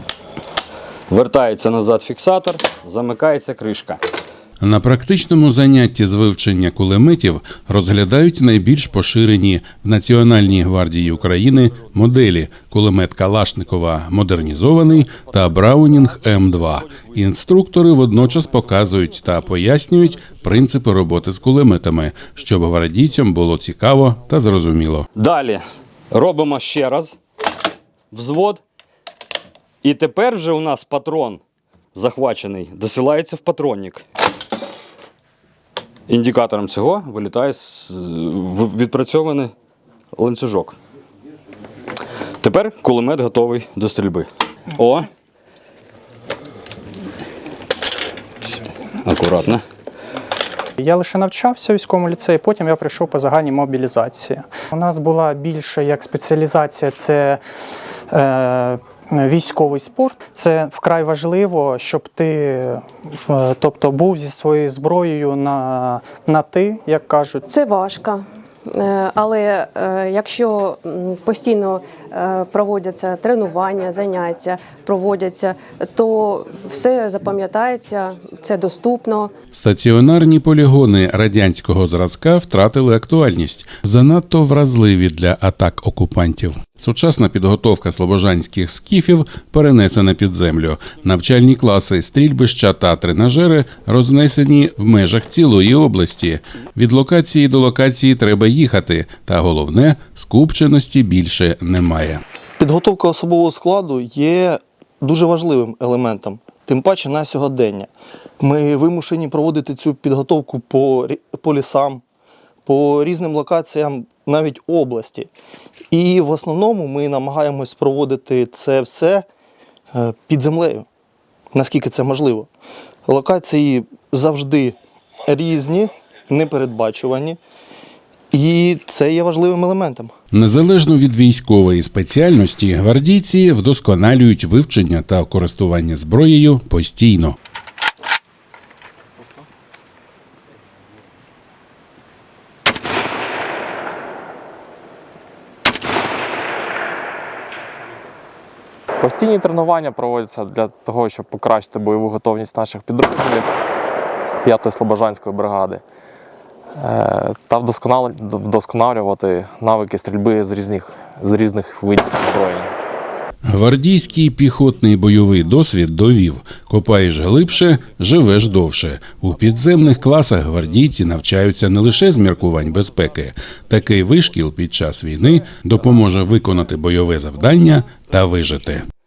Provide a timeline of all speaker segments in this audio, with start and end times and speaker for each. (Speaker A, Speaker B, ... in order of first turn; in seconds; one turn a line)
Speaker A: 1.1-4.0
Speaker B: 4.6-25.1
Speaker A: 25.1-27.2
Speaker A: 28.1-28.6
Speaker A: 29.8-31.4
Speaker A: 31.9-34.0
Speaker A: 36.1-39.5
Speaker A: 40.1-40.8
Speaker A: 42.4-45.1
Speaker A: 49.0-49.6
Speaker C: 50.8-57.4
Speaker C: 58.1-67.4
Speaker D: 67.5-79.3
Speaker B: 79.5-102.2
Speaker E: 102.6-112.0
Speaker E: 112.7-115.3
Speaker E: 115.9-119.2
Speaker E: 119.9-120.8
Speaker E: 121.5-122.5
Speaker E: 123.0-124.7
Speaker E: 125.2-127.4
Speaker E: 128.3-130.1
Speaker B: 130.3-137.3
Speaker F: 149.0-153.5
Speaker F: 154.4-155.8
Speaker F: 156.8-162.7
Speaker B: 163.5-178.8